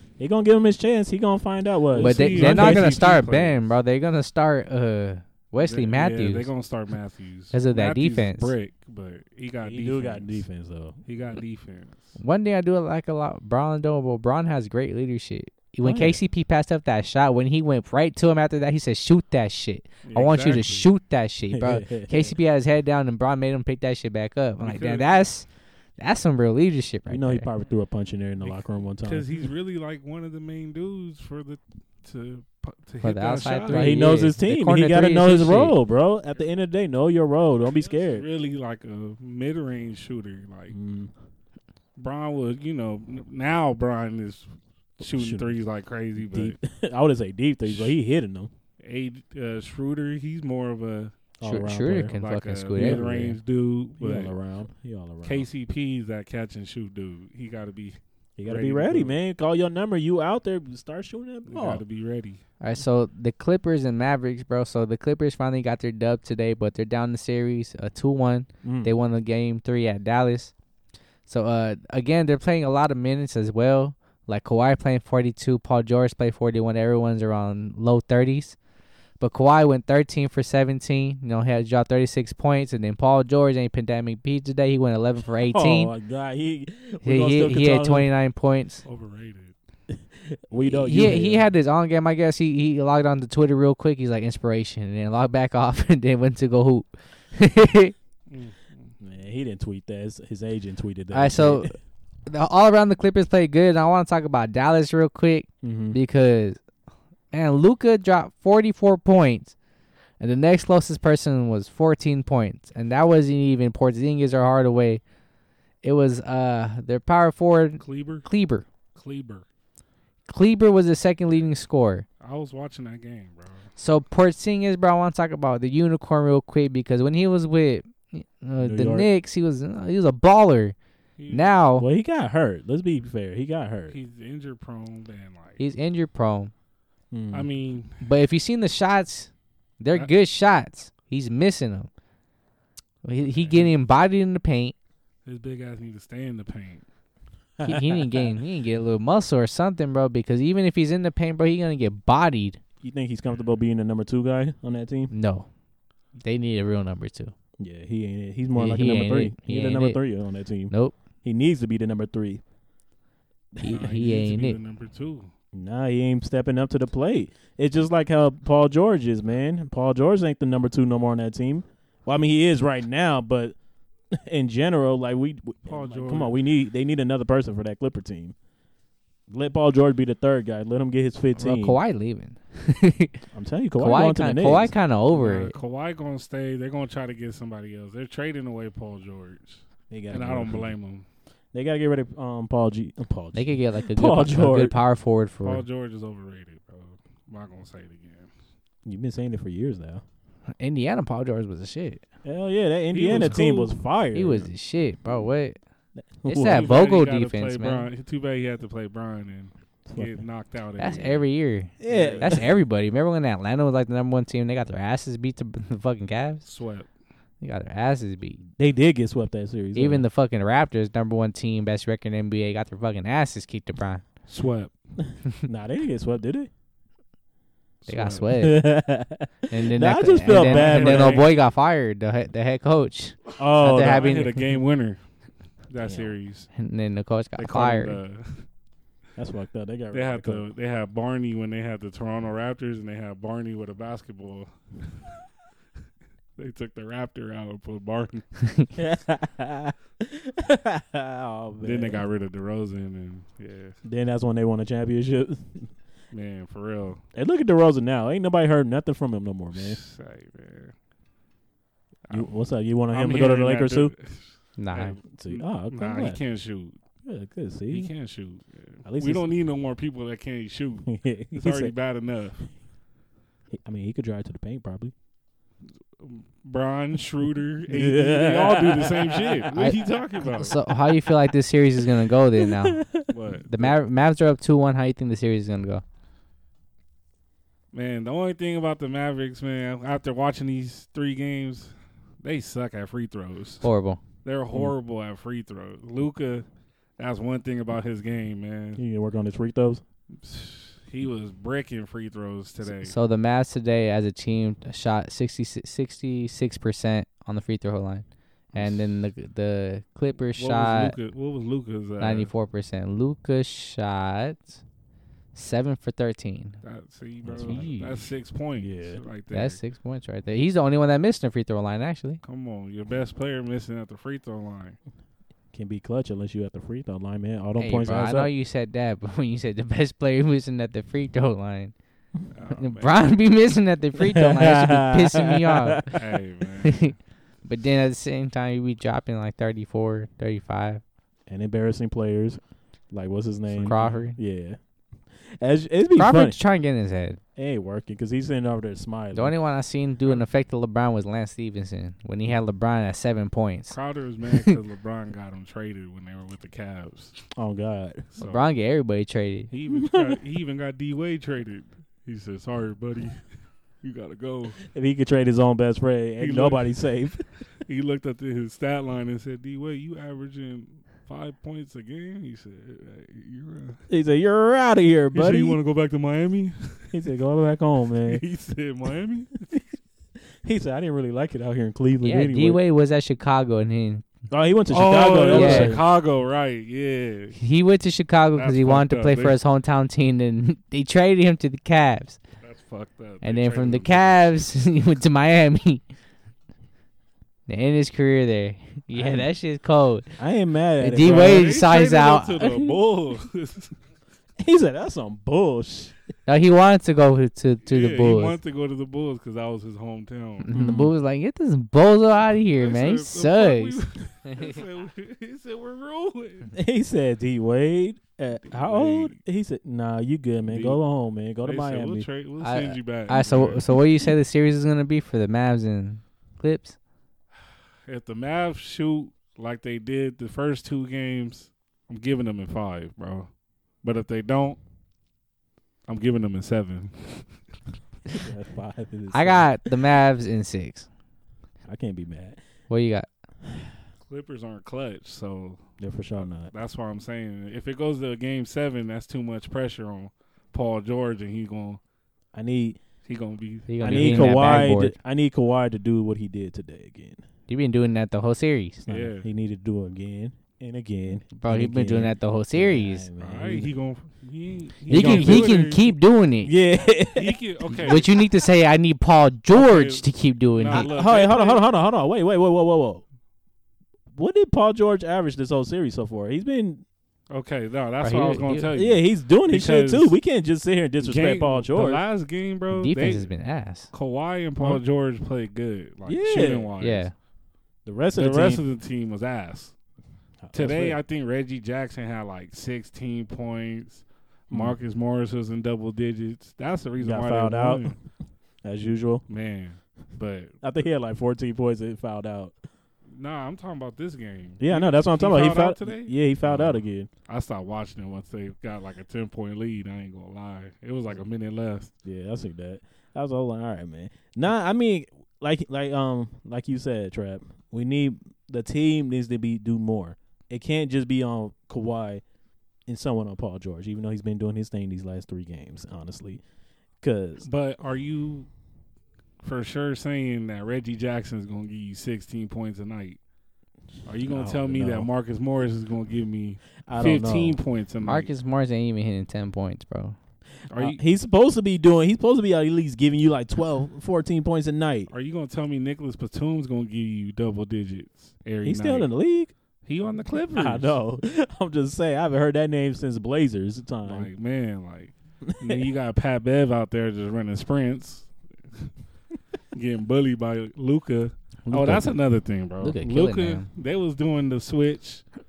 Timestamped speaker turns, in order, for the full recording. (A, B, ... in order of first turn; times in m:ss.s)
0:00.2-0:03.0 A
0:01.9-0:03.6 B
0:02.0-0:06.5 C
0:05.6-0:10.4 B
0:07.5-0:08.5 C
0:09.6-0:11.0 A
0:11.0-0:12.2 B
0:12.2-0:25.4 C
0:15.8-0:16.2 A
0:20.0-0:20.9 B
0:21.5-0:22.3 A
0:24.6-0:25.3 B
0:26.0-0:27.5 C
0:27.1-0:29.3 A
0:28.4-0:34.0 B
0:33.0-0:35.7 C
0:33.7-0:38.2 A
0:37.8-0:40.8 B
0:40.7-0:41.1 A
0:42.0-0:46.6 B
0:45.0-0:45.5 A
0:46.2-0:48.5 A
0:47.6-0:47.9 B
0:48.8-0:51.2 B
0:51.4-0:52.1 A
0:51.4-0:53.4 C
0:52.1-0:54.3 B
0:52.8-0:53.0 A
0:54.0-0:55.5 A
0:55.2-0:59.1 B
0:58.4-1:01.8 A
1:01.5-1:02.4 B
1:02.6-1:10.5 C
1:08.6-1:08.9 A
1:11.3-1:18.6 C
1:19.2-1:25.9 C
1:25.4-1:28.1 A
1:27.0-1:28.8 C
1:28.8-1:29.5 B
1:29.9-1:31.4 A
1:30.6-1:37.9 C
1:38.3-1:38.9 B
1:39.0-1:41.7 A
1:41.1-1:41.7 C
1:42.3-1:46.6 C
1:45.6-1:46.0 A
1:47.3-1:49.5 C
1:50.2-1:55.0 C
1:55.8-1:58.7 C
1:57.8-1:58.3 B
1:58.9-1:59.4 B
2:00.3-2:02.0 C
2:02.2-2:03.7 B
2:03.8-2:10.8 C
2:08.6-2:09.1 A
2:11.2-2:11.5 B
2:11.3-2:11.9 C
2:11.8-2:14.0 A
2:13.9-2:15.6 B
2:15.6-2:16.5 C
2:17.1-2:17.5 A
2:17.3-2:18.1 B
2:18.0-2:21.9 C
2:23.0-2:24.7 C
2:23.2-2:23.7 B
2:25.2-2:26.8 B
2:27.6-2:28.4 A
2:27.6-2:32.6 C
2:32.8-2:35.1 A
2:35.1-2:35.5 C
2:36.2-2:37.3 C
2:37.6-2:42.4 A
2:38.6-2:40.0 C
2:40.7-2:41.0 C
2:43.6-2:44.6 C
2:43.6-2:45.3 B
2:45.5-2:53.5 A
2:54.1-2:58.3 A
2:55.7-2:56.4 B
2:59.3-3:01.8 A
3:01.4-3:03.2 C
3:03.3-3:04.7 A
3:03.8-3:05.5 C
3:05.1-3:11.0 B
3:09.9-3:10.7 A
3:11.5-3:14.8 A
3:13.3-3:15.6 C
3:15.4-3:18.3 B
3:18.8-3:20.0 A
3:20.6-3:22.0 C
3:22.2-3:24.5 A
3:22.9-3:23.8 B
3:24.1-3:25.6 C
3:26.0-3:26.7 A
3:26.2-3:27.9 C
3:26.4-3:31.2 B
3:29.9-3:30.2 A
3:30.8-3:36.4 C
3:31.8-3:32.5 A
3:31.9-3:32.4 B
3:36.4-3:36.9 B
3:37.4-3:38.4 C
3:38.6-3:40.0 A
3:39.7-3:44.0 C
3:44.3-3:44.7 B
3:45.4-3:46.5 A
3:47.8-3:48.3 B
3:47.9-3:48.7 C
3:48.4-3:51.2 A
3:49.5-3:54.4 C
3:50.3-3:51.2 B
3:53.4-3:54.1 A
3:53.7-3:55.0 B
3:55.7-3:56.5 B
3:55.8-3:56.1 A
3:56.5-3:58.0 C
3:57.4-3:58.4 B
3:59.2-4:00.4 A
3:59.9-4:05.2 B
4:06.4-4:08.2 B
4:08.4-4:08.7 C
4:08.8-4:12.0 A
4:11.6-4:13.8 B
4:13.8-4:15.7 A
4:16.1-4:17.0 B
4:17.1-4:19.8 A
4:19.5-4:20.7 B
4:22.1-4:23.9 A
4:22.9-4:26.8 B
4:24.6-4:25.0 C
4:25.1-4:26.2 A
4:27.0-4:27.9 A
4:27.7-4:32.5 B
4:28.8-4:29.3 A
4:30.8-4:31.7 A
4:33.5-4:34.9 A
4:36.0-4:40.6 B
4:37.7-4:39.5 A
4:39.5-4:42.8 C
4:42.4-4:43.1 A
4:43.1-4:43.7 B
4:43.5-4:45.8 C
4:47.7-4:53.6 B
4:53.6-4:54.0 C
4:54.2-4:56.4 B
4:57.0-4:58.8 B
4:58.8-4:59.8 A
5:00.2-5:02.9 B
5:02.8-5:10.9 C
5:10.4-5:12.3 B
5:12.0-5:14.6 C
5:15.3-5:16.6 C
5:16.6-5:19.6 B
5:17.2-5:17.7 A
5:17.4-5:18.0 C
5:18.6-5:19.0 A
5:19.3-5:22.2 C
5:22.2-5:24.8 B
5:25.5-5:28.3 A
5:27.6-5:31.7 C
5:32.3-5:33.0 B
5:32.6-5:35.9 C
5:34.0-5:36.0 A
5:35.9-5:36.9 B
5:36.6-5:36.9 C
5:37.4-5:40.8 C
5:41.3-5:42.4 A
5:42.9-5:44.6 A
5:43.5-5:44.0 B
5:43.6-5:44.2 C
5:45.2-5:46.4 A
5:46.0-5:47.2 C
5:47.4-5:49.3 A
5:49.1-5:53.8 C
5:53.7-5:57.2 B
5:57.3-5:58.1 A
5:58.2-5:58.4 B
5:58.2-5:59.5 C
5:59.5-6:03.2 B
5:59.7-6:00.2 A
6:03.8-6:04.6 B
6:04.6-6:07.2 A
6:06.2-6:06.8 B
6:07.6-6:13.8 B
6:13.9-6:15.6 A
6:15.1-6:16.9 B
6:16.9-6:18.2 A
6:18.0-6:19.5 B
6:20.4-6:22.6 A
6:22.0-6:24.0 C
6:24.3-6:25.8 A
6:24.7-6:27.4 B
6:25.3-6:25.8 C
6:27.4-6:32.2 C
6:28.3-6:29.4 B
6:32.4-6:34.4 B
6:33.2-6:35.8 C
6:37.5-6:40.1 C
6:38.9-6:39.3 A
6:40.2-6:41.5 A
6:40.8-6:42.8 C
6:41.0-6:43.7 B
6:44.4-6:45.9 A
6:46.2-6:48.4 C
6:47.6-6:50.5 B
6:50.4-6:54.6 C
6:50.5-6:50.9 A
6:52.6-6:56.5 B
6:56.5-7:02.0 A
6:58.5-6:59.1 B
7:00.5-7:00.8 B
7:01.4-7:03.7 B
7:02.4-7:06.8 C
7:07.8-7:13.3 B
7:13.8-7:14.6 B
7:15.9-7:17.3 B
7:18.1-7:19.5 A
7:19.1-7:20.9 C
7:21.7-7:22.4 A
7:22.7-7:23.1 C
7:23.5-7:23.7 A
7:24.1-7:31.8 B
7:25.8-7:26.5 A
7:32.3-7:32.8 A
7:33.0-7:34.7 B
7:33.7-7:34.9 C
7:33.8-7:37.2 A
7:37.5-7:38.9 C
7:38.9-7:43.7 A
7:38.9-7:39.3 B
7:41.3-7:43.1 C
7:43.2-7:45.9 B
7:44.9-7:46.5 C
7:44.9-7:45.5 A
7:46.4-7:48.2 A
7:47.1-7:48.1 B
7:47.8-7:50.9 C
7:49.5-7:51.6 B
7:50.7-7:53.0 A
7:54.1-7:56.8 A
7:57.3-8:00.1 B
7:58.0-7:58.7 C
7:58.7-8:02.0 A
8:01.0-8:03.3 B
8:02.7-8:03.9 C
8:03.9-8:07.1 B
8:06.0-8:06.7 A
8:06.8-8:07.1 C
8:07.8-8:08.6 A
8:08.2-8:09.7 B
8:10.4-8:11.0 A
8:10.5-8:17.9 B
8:14.5-8:14.8 A
8:17.0-8:17.9 A
8:18.6-8:19.2 A
8:19.3-8:20.6 B
8:20.6-8:22.5 A
8:23.1-8:31.9 B
8:24.6-8:27.1 A
8:32.0-8:42.2 A
8:42.9-8:46.4 A
8:47.0-8:47.4 A
8:47.4-8:48.5 B
8:49.4-8:53.2 B
8:54.0-8:58.3 B
8:54.3-8:55.1 A
8:56.9-8:57.6 A
8:58.0-9:00.2 C
9:00.7-9:01.0 B
9:00.7-9:05.1 A
9:05.1-9:09.1 B
9:08.6-9:09.5 A
9:09.8-9:10.9 B
9:10.5-9:14.3 A
9:14.0-9:18.9 B
9:15.4-9:15.9 A
9:19.7-9:25.2 B
9:21.6-9:22.2 C
9:22.8-9:23.7 C